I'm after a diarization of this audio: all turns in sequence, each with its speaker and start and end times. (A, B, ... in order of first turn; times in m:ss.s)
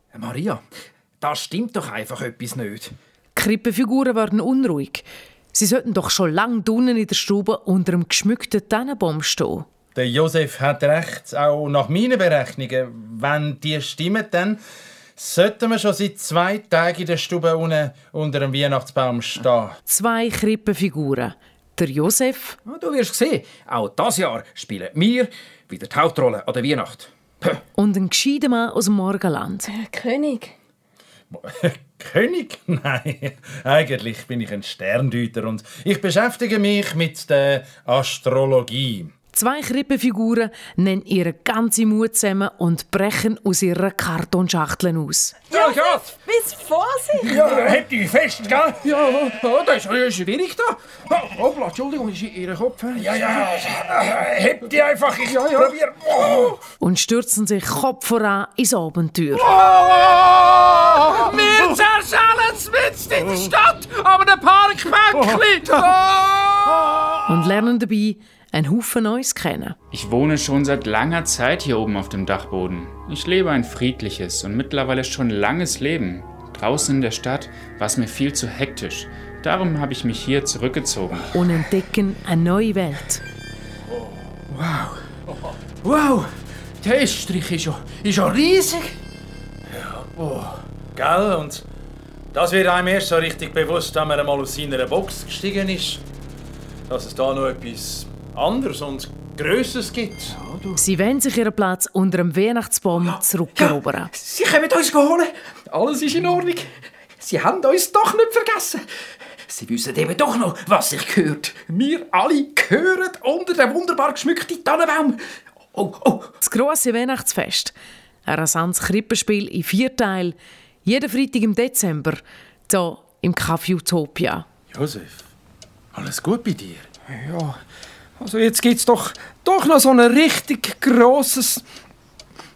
0:00.1-0:00.6 A
0:01.2-0:02.9 A
0:03.3-0:09.6 B
0:09.9-0:14.6 C
0:15.2-0:19.8 C
0:19.9-0:22.6 B
0:22.6-0:27.6 A
0:27.8-0:29.7 B
0:29.7-0:30.5 D
0:31.3-0:39.1 C
0:39.3-0:45.5 B
0:45.5-0:46.1 A
0:45.5-0:47.5 D
0:47.2-0:56.6 A
0:56.8-0:59.6 B
0:59.6-1:06.1 A
1:07.2-1:09.8 B
1:09.9-1:21.4 E
1:21.3-1:23.2 B
1:24.5-1:25.0 A
1:25.8-1:26.3 A
1:26.8-1:28.9 A
1:29.7-1:30.2 C
1:30.2-1:30.5 A
1:30.9-1:31.6 C
1:32.3-1:36.0 C
1:36.9-1:40.4 C
1:40.4-1:40.7 A
1:40.8-1:44.1 B
1:43.6-1:48.8 A
1:49.5-1:55.2 A
1:55.7-1:56.3 A
1:56.4-1:57.7 B
1:58.2-2:04.4 B
2:04.7-2:05.2 C
2:05.9-2:06.9 C
2:07.1-2:07.6 F
2:08.2-2:11.6 F